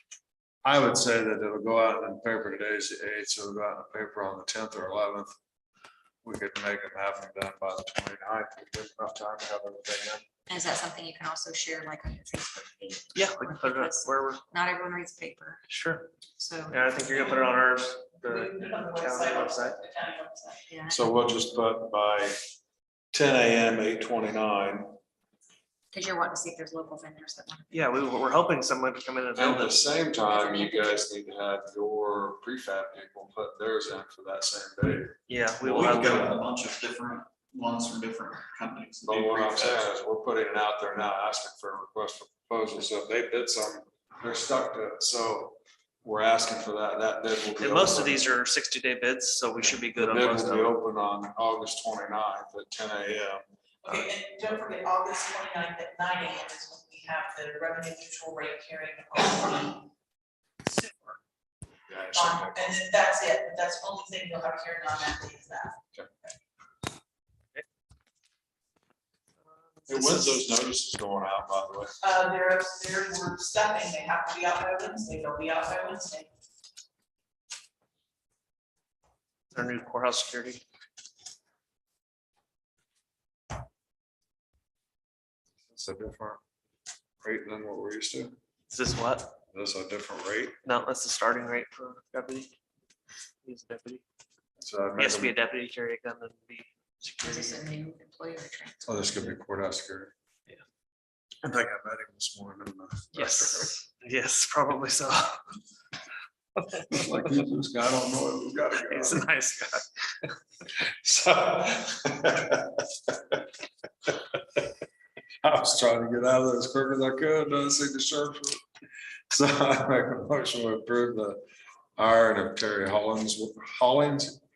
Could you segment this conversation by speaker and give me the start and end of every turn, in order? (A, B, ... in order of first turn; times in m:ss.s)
0:00.6-0:05.3 A
0:06.2-0:10.2 A
0:10.5-0:15.6 B
0:13.1-0:14.4 C
0:15.7-0:16.1 C
0:16.4-0:17.1 B
0:16.7-0:19.8 C
0:18.2-0:20.6 D
0:20.7-0:21.2 B
0:20.9-0:22.4 A
0:23.1-0:25.0 A
0:25.9-0:27.9 B
0:27.7-0:29.8 C
0:29.3-0:36.2 A
0:30.1-0:31.0 B
0:35.3-0:36.3 C
0:35.6-0:39.9 E
0:39.1-0:48.3 A
0:47.6-0:50.8 C
0:49.6-0:53.4 A
0:53.8-0:59.8 D
1:01.9-1:02.8 A
1:02.1-1:05.8 D
1:09.9-1:12.0 A
1:10.0-1:10.3 D
1:12.0-1:16.3 D
1:19.5-1:20.6 C
1:25.7-1:26.4 A
1:27.2-1:28.4 A
1:28.7-1:29.3 C
1:29.5-1:30.6 A
1:30.6-1:32.5 C
1:33.4-1:34.0 C
1:34.6-1:35.3 A
1:35.0-1:37.6 C
1:37.2-1:39.3 B
1:38.9-1:40.1 A
1:41.4-1:43.7 A
1:43.1-1:45.4 C
1:46.6-1:47.0 C
1:46.9-1:49.2 A
1:48.7-1:50.3 C
1:51.0-1:53.4 A
1:54.0-1:54.6 A
1:55.4-1:58.6 A
1:59.3-2:01.4 A
2:02.0-2:04.4 A